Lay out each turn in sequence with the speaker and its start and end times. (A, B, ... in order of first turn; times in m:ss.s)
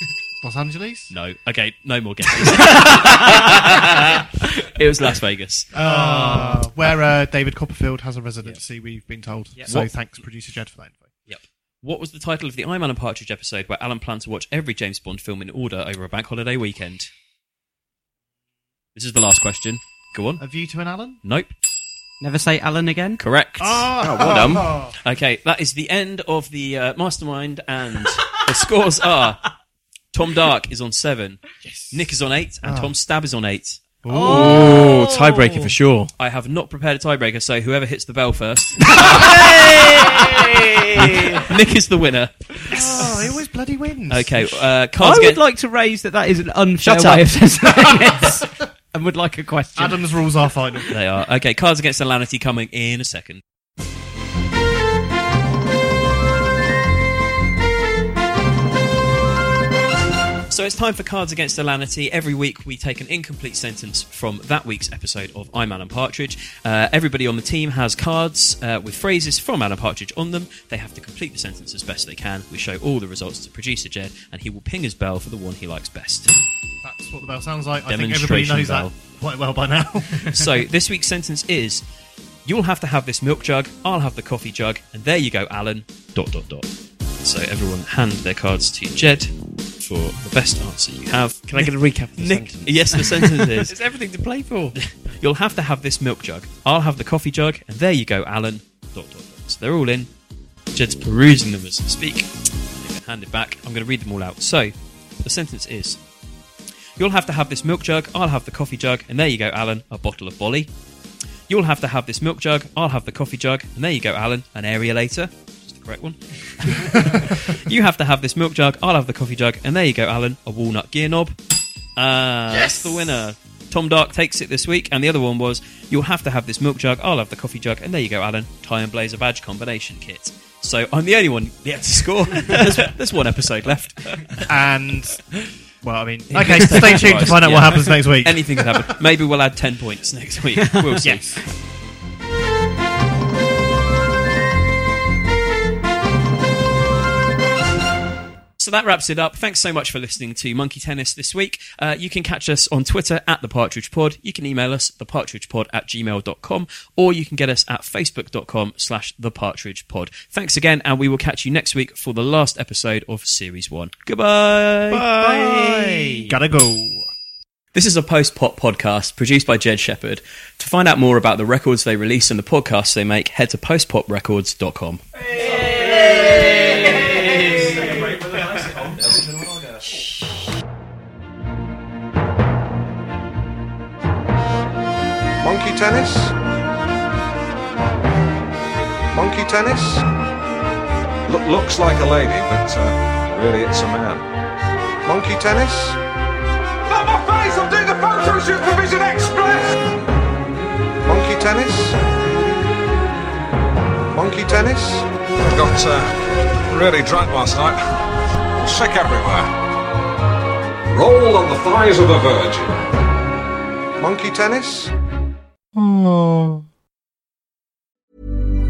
0:00.4-0:01.1 A
0:01.1-0:05.7 B
0:05.7-0:11.1 A
0:11.3-0:17.1 B
0:19.0-0:20.4 B
0:20.4-0:21.2 A
0:21.2-0:21.5 B
0:22.2-0:23.2 C
0:23.2-0:29.4 B
0:23.6-0:24.9 A
0:24.0-0:24.9 D
0:30.1-0:34.5 B
0:32.6-0:32.9 A
0:34.0-0:34.8 A
0:34.1-0:35.7 C
0:34.2-0:36.1 D
0:36.2-0:39.4 B
0:39.4-0:40.8 D
0:40.9-0:42.6 B
0:42.7-0:44.4 A
0:42.7-0:43.2 C
0:44.1-0:45.4 B
0:45.0-0:50.1 C
0:46.8-0:47.3 B
0:49.8-0:50.9 A
0:50.9-0:53.4 B
1:00.5-1:16.3 B
1:16.8-1:20.5 A
1:17.9-1:19.0 B
1:20.3-1:21.8 B
1:22.5-1:26.7 B
1:27.2-1:33.8 B
1:31.5-1:34.8 D
1:34.8-1:40.1 B
1:40.7-1:46.0 B
1:47.0-1:50.7 B
1:51.5-2:01.4 B
1:57.0-1:57.2 A
2:02.0-2:14.4 B
2:14.5-2:15.3 A
2:15.8-2:18.6 A
2:16.3-2:21.4 B
2:20.6-2:21.0 C
2:21.0-2:21.4 A
2:28.6-2:46.2 B
2:44.9-2:46.2 D
2:45.1-2:47.1 A
2:47.7-2:59.7 B
3:05.4-3:06.3 E
3:09.1-3:10.0 E
3:11.3-3:14.2 E
3:15.0-3:16.0 E
3:16.9-3:19.9 E
3:21.0-3:22.0 E
3:24.1-3:28.0 E
3:28.6-3:29.5 E
3:30.9-3:32.8 E
3:34.0-3:34.9 E
3:35.8-3:36.5 A